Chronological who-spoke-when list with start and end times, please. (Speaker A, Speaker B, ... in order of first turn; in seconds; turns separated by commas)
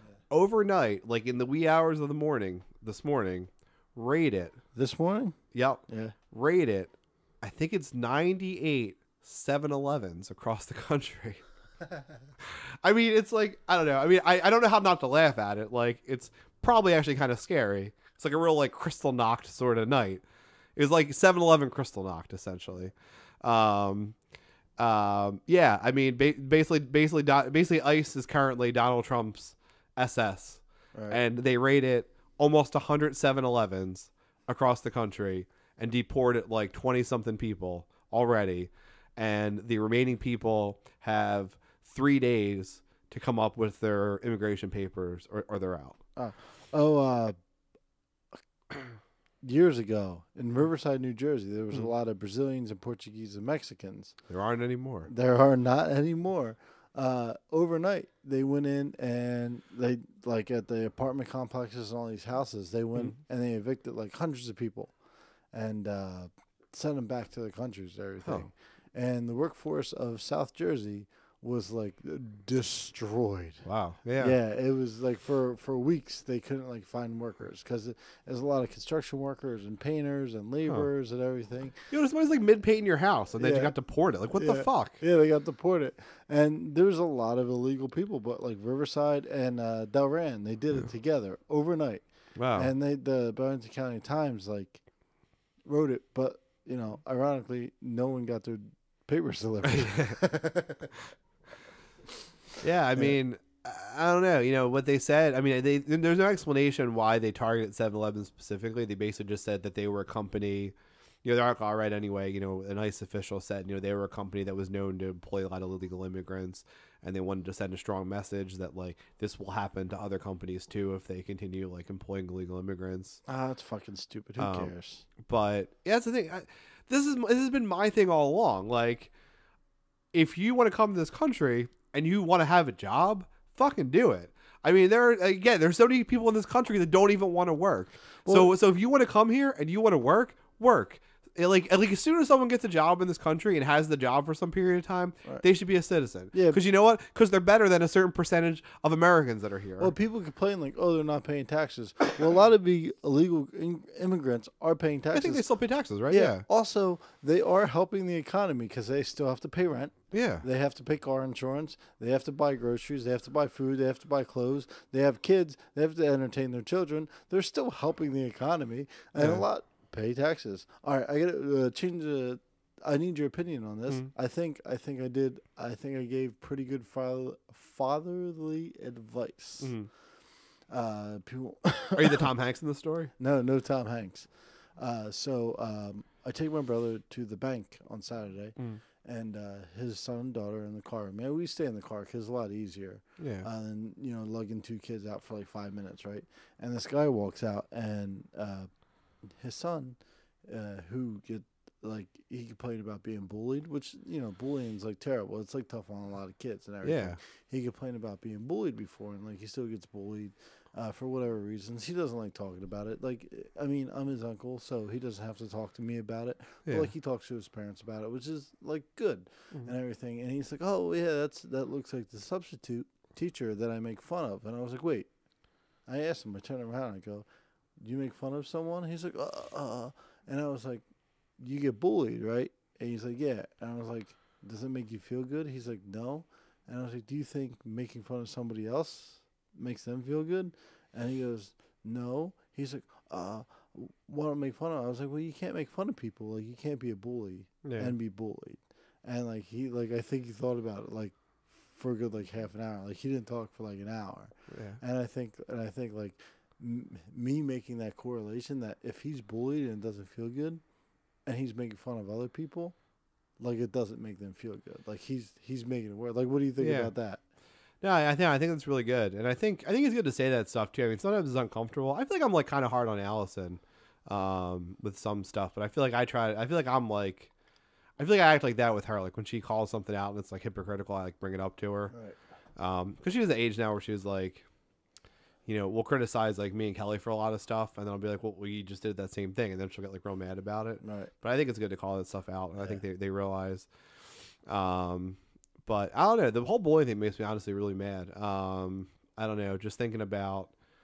Speaker A: 0.3-4.6, Speaker B: 4.8-5.4, Speaker A: 5.5-11.4, Speaker B: 5.9-6.2, Speaker A: 12.4-20.2, Speaker A: 20.8-24.2, Speaker A: 24.8-46.0, Speaker B: 46.2-47.4, Speaker B: 49.4-54.2, Speaker A: 54.3-55.1, Speaker B: 55.1-64.9, Speaker B: 65.5-73.7, Speaker A: 73.7-74.4, Speaker B: 74.2-81.8, Speaker A: 81.9-85.0, Speaker B: 83.4-83.8, Speaker B: 84.3-94.8, Speaker A: 92.4-92.7, Speaker B: 95.7-100.9, Speaker A: 99.7-100.2, Speaker A: 102.6-123.2, Speaker B: 123.3-125.1, Speaker A: 124.4-129.1, Speaker A: 130.1-149.9, Speaker B: 138.2-138.5, Speaker B: 146.3-146.6, Speaker B: 149.8-155.4, Speaker A: 155.1-156.4, Speaker B: 156.1-179.8, Speaker A: 160.1-160.4, Speaker A: 169.2-169.4, Speaker A: 179.6-179.9, Speaker B: 180.7-182.3, Speaker A: 182.0-183.1, Speaker B: 183.2-198.7, Speaker A: 193.2-193.5, Speaker B: 199.3-225.1, Speaker A: 206.8-207.2, Speaker B: 225.9-227.3, Speaker B: 227.8-230.8, Speaker B: 231.4-260.6, Speaker A: 247.6-247.9, Speaker A: 254.5-254.8, Speaker B: 261.3-262.8, Speaker B: 263.4-267.2, Speaker A: 266.6-266.9, Speaker A: 267.8-277.3, Speaker A: 278.0-281.9, Speaker B: 281.9-282.2, Speaker A: 282.6-284.4, Speaker A: 285.5-293.7, Speaker B: 290.8-291.1, Speaker A: 294.4-300.5